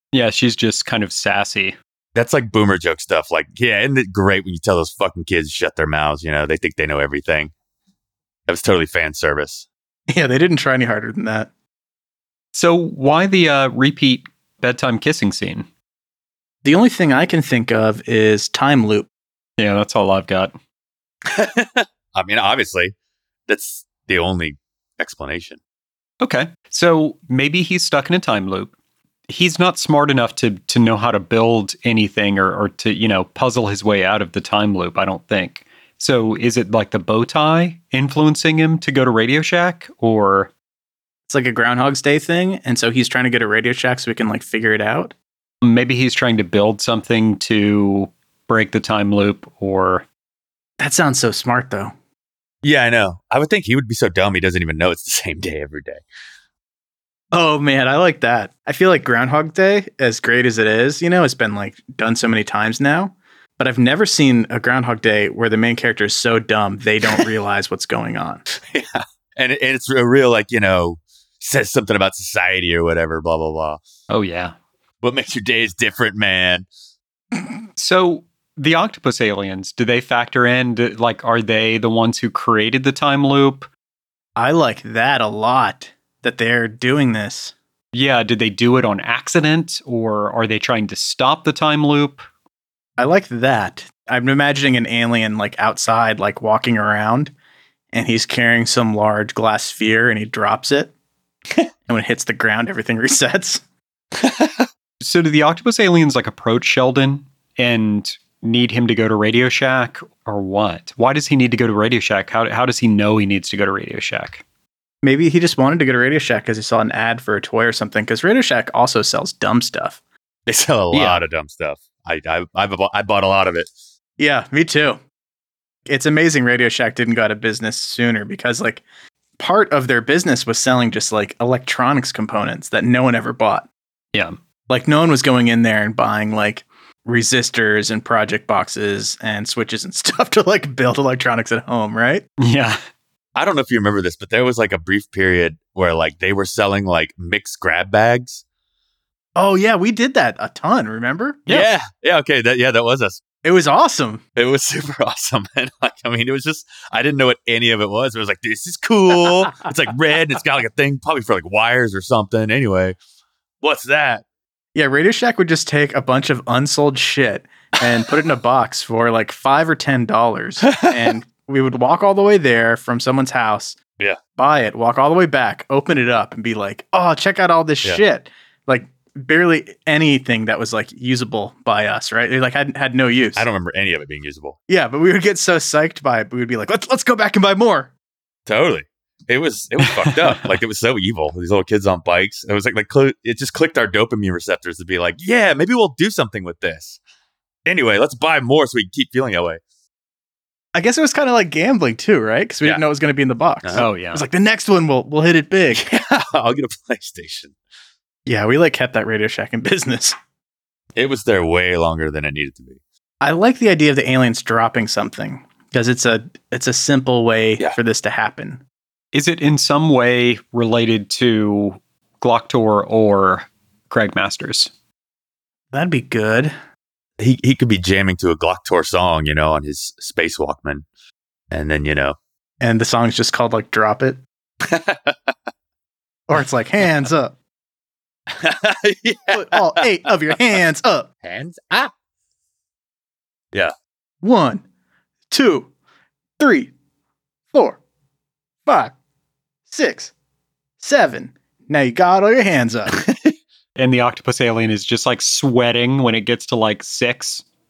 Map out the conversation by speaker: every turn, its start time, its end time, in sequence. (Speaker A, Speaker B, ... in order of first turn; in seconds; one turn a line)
Speaker A: 0.1-1.8
Speaker B: 2.1-7.5
Speaker B: 8.5-9.7
Speaker C: 10.1-11.5
Speaker A: 12.5-15.7
Speaker C: 16.6-19.1
Speaker A: 19.6-20.5
Speaker B: 21.3-22.9
Speaker B: 23.5-25.6
Speaker A: 26.2-28.7
Speaker A: 29.3-40.5
Speaker C: 41.3-45.1
Speaker A: 45.6-50.0
Speaker C: 50.8-51.9
Speaker B: 52.6-56.0
Speaker C: 57.3-68.4
Speaker B: 68.6-73.8
Speaker A: 74.1-74.5
Speaker B: 75.0-76.7
Speaker A: 77.8-83.7
Speaker C: 84.4-87.5
Speaker A: 87.9-92.3
Speaker C: 93.0-97.3
Speaker C: 97.9-100.9
Speaker C: 101.9-103.6
Speaker B: 104.2-104.7
Speaker A: 105.0-114.4
Speaker C: 115.0-120.0
Speaker B: 120.5-123.7
Speaker A: 120.9-121.2
Speaker C: 124.2-125.0
Speaker C: 125.9-128.8
Speaker C: 129.4-133.7
Speaker C: 134.7-142.2
Speaker A: 142.4-142.8
Speaker B: 143.3-148.4
Speaker C: 149.4-151.5
Speaker B: 151.5-153.2
Speaker C: 153.4-154.2
Speaker B: 154.4-163.0
Speaker B: 163.6-164.2
Speaker C: 164.8-173.8
Speaker C: 174.4-183.5
Speaker B: 183.4-184.6
Speaker C: 184.7-187.9
Speaker B: 188.5-197.0
Speaker B: 197.7-199.6
Speaker C: 200.7-205.8
Speaker A: 203.8-204.2
Speaker B: 205.7-207.5
Speaker C: 208.3-210.2
Speaker B: 210.9-212.8
Speaker C: 213.2-218.6
Speaker A: 219.1-224.7
Speaker C: 225.7-226.6
Speaker B: 227.2-230.8
Speaker B: 231.5-232.2
Speaker C: 232.6-234.2
Speaker B: 234.6-235.3
Speaker C: 236.3-237.3
Speaker B: 238.3-239.9
Speaker C: 239.3-241.1
Speaker B: 241.2-241.9
Speaker C: 244.2-244.6
Speaker C: 245.3-245.7
Speaker C: 246.4-246.7
Speaker C: 247.5-247.8
Speaker C: 248.7-248.9
Speaker C: 249.7-250.1
Speaker C: 250.8-253.0
Speaker A: 253.8-257.4